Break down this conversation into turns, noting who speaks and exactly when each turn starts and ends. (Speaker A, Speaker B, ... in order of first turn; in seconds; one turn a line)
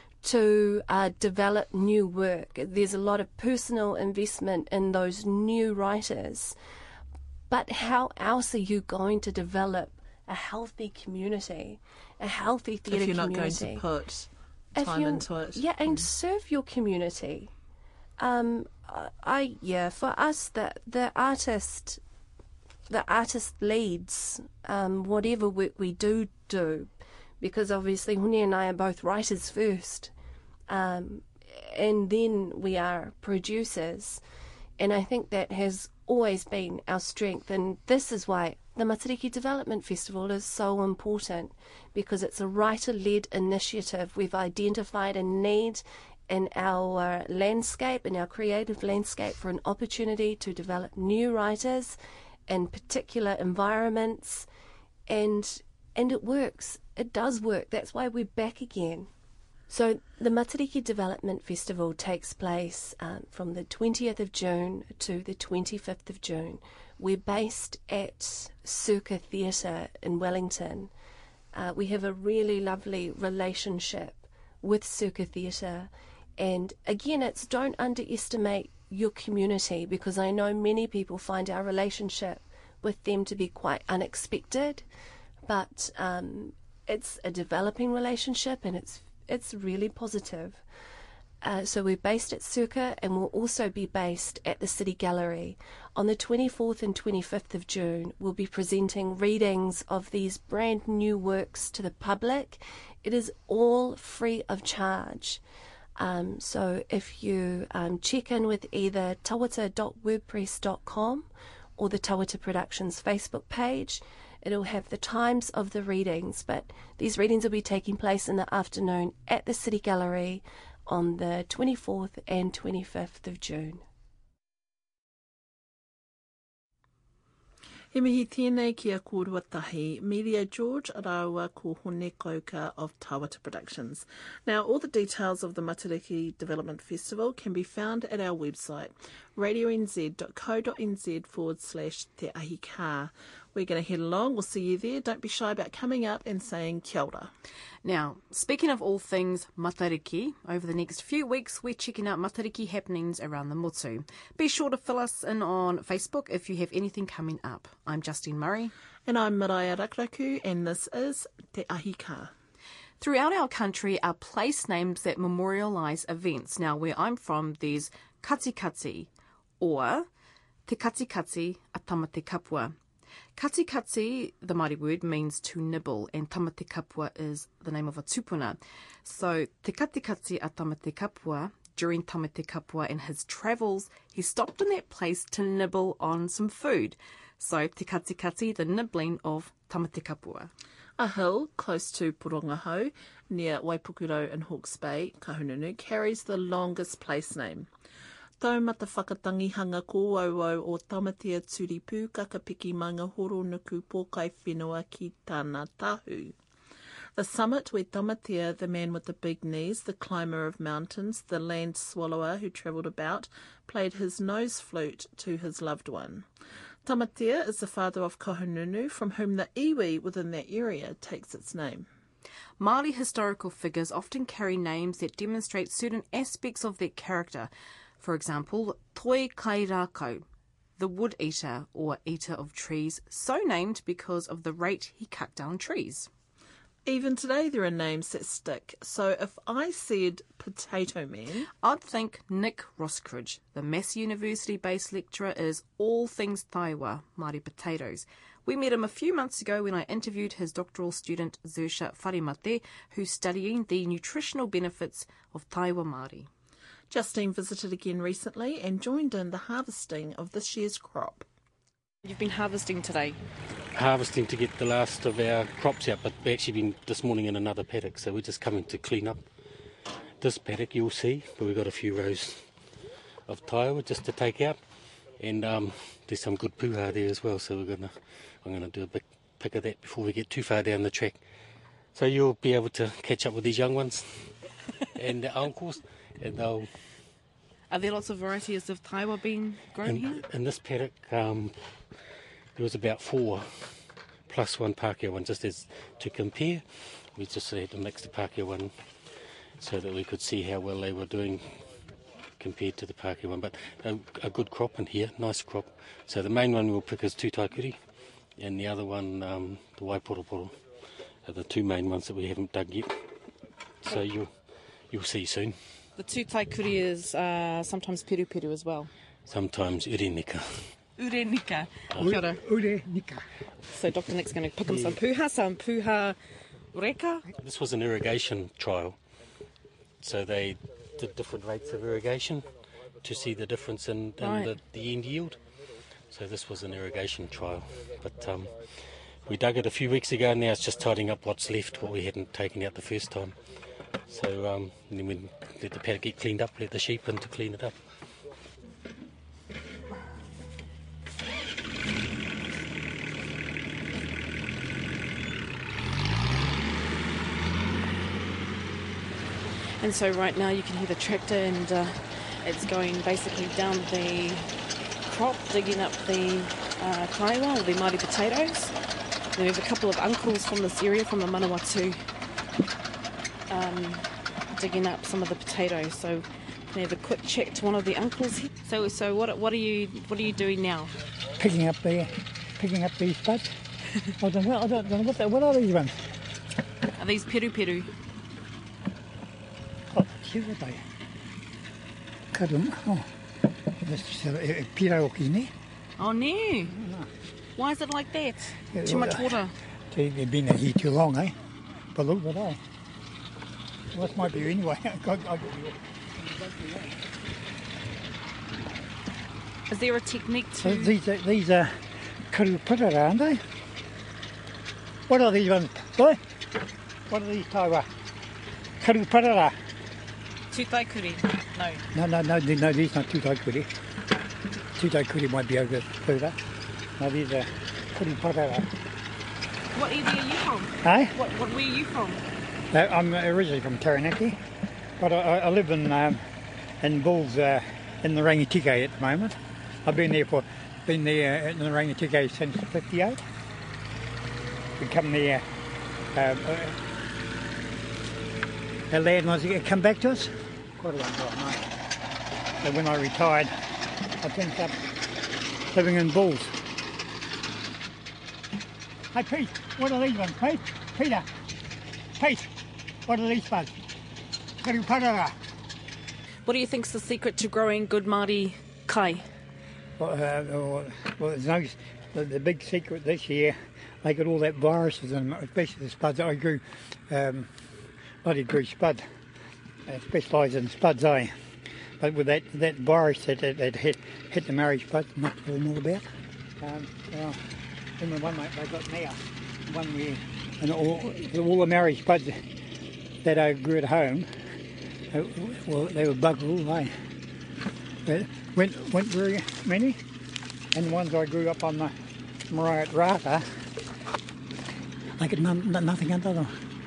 Speaker A: 0.2-6.6
Speaker A: 7.5-13.8
Speaker B: 12.9-16.1
Speaker A: 14.8-17.5
Speaker A: 18.2-22.0
Speaker A: 22.9-26.9
Speaker A: 27.4-30.1
Speaker A: 30.7-34.2
Speaker A: 34.8-54.5
Speaker A: 55.1-59.1
Speaker A: 59.7-70.9
Speaker A: 71.5-84.8
Speaker A: 85.5-90.6
Speaker A: 91.4-105.4
Speaker A: 106.0-123.8
Speaker B: 127.9-147.3
Speaker C: 147.8-158.7
Speaker B: 159.1-162.3
Speaker C: 163.0-169.1
Speaker C: 169.6-170.1
Speaker C: 170.7-172.8
Speaker C: 173.4-190.5
Speaker B: 191.0-197.7
Speaker B: 198.4-206.4
Speaker B: 207.2-216.3
Speaker B: 216.8-221.9
Speaker C: 222.6-230.2
Speaker C: 230.8-236.1
Speaker B: 236.9-241.5
Speaker C: 241.5-256.3
Speaker B: 256.9-261.3
Speaker C: 262.1-263.2
Speaker D: 263.7-269.2
Speaker D: 270.2-272.6
Speaker D: 273.3-274.6
Speaker D: 275.1-281.2
Speaker D: 281.9-284.4
Speaker D: 285.0-286.7
Speaker C: 287.7-290.2
Speaker D: 289.8-291.8
Speaker D: 292.6-298.9
Speaker D: 299.6-301.8
Speaker D: 302.4-307.8
Speaker D: 308.4-310.6
Speaker D: 311.2-313.1
Speaker D: 313.8-315.8
Speaker C: 316.0-318.9
Speaker D: 319.3-320.7
Speaker C: 321.0-322.4
Speaker E: 322.0-323.3
Speaker C: 323.7-326.2
Speaker D: 324.7-325.0
Speaker C: 326.7-327.2
Speaker D: 327.4-329.0
Speaker D: 330.0-335.4
Speaker C: 334.2-334.5
Speaker D: 336.1-343.4
Speaker D: 344.1-347.9
Speaker C: 359.8-364.5
Speaker C: 365.1-368.8
Speaker C: 369.4-372.0
Speaker C: 373.5-380.9
Speaker E: 381.4-383.6
Speaker E: 384.2-386.1
Speaker C: 387.0-387.9
Speaker E: 389.9-390.8
Speaker E: 392.3-393.1
Speaker E: 393.8-395.5
Speaker C: 396.0-396.8
Speaker E: 396.7-397.1
Speaker C: 397.6-399.5
Speaker E: 398.7-399.3
Speaker E: 399.9-401.4
Speaker E: 401.9-402.6
Speaker E: 403.9-406.9
Speaker C: 409.7-410.9
Speaker E: 410.6-413.4
Speaker E: 415.1-416.2
Speaker E: 417.1-417.9
Speaker E: 418.8-419.6
Speaker C: 420.5-421.8
Speaker E: 421.9-423.7
Speaker E: 424.8-426.4
Speaker E: 427.0-428.7
Speaker C: 429.7-432.2
Speaker E: 430.8-431.1
Speaker E: 432.7-434.4
Speaker E: 435.0-436.3
Speaker E: 436.8-443.2
Speaker E: 444.8-445.5
Speaker E: 446.1-446.8
Speaker E: 448.9-451.7
Speaker E: 452.6-453.6
Speaker E: 454.2-454.8
Speaker E: 455.7-456.6
Speaker E: 459.1-461.3
Speaker E: 462.2-462.5
Speaker E: 463.1-463.8
Speaker E: 464.6-465.4
Speaker C: 466.5-469.3
Speaker E: 470.0-477.5
Speaker E: 478.2-479.1
Speaker E: 479.9-481.4
Speaker E: 482.0-486.1
Speaker E: 486.6-492.5
Speaker E: 493.2-494.3
Speaker E: 495.1-496.9
Speaker E: 498.1-500.0
Speaker E: 500.7-502.0
Speaker E: 502.5-503.7
Speaker E: 505.2-506.6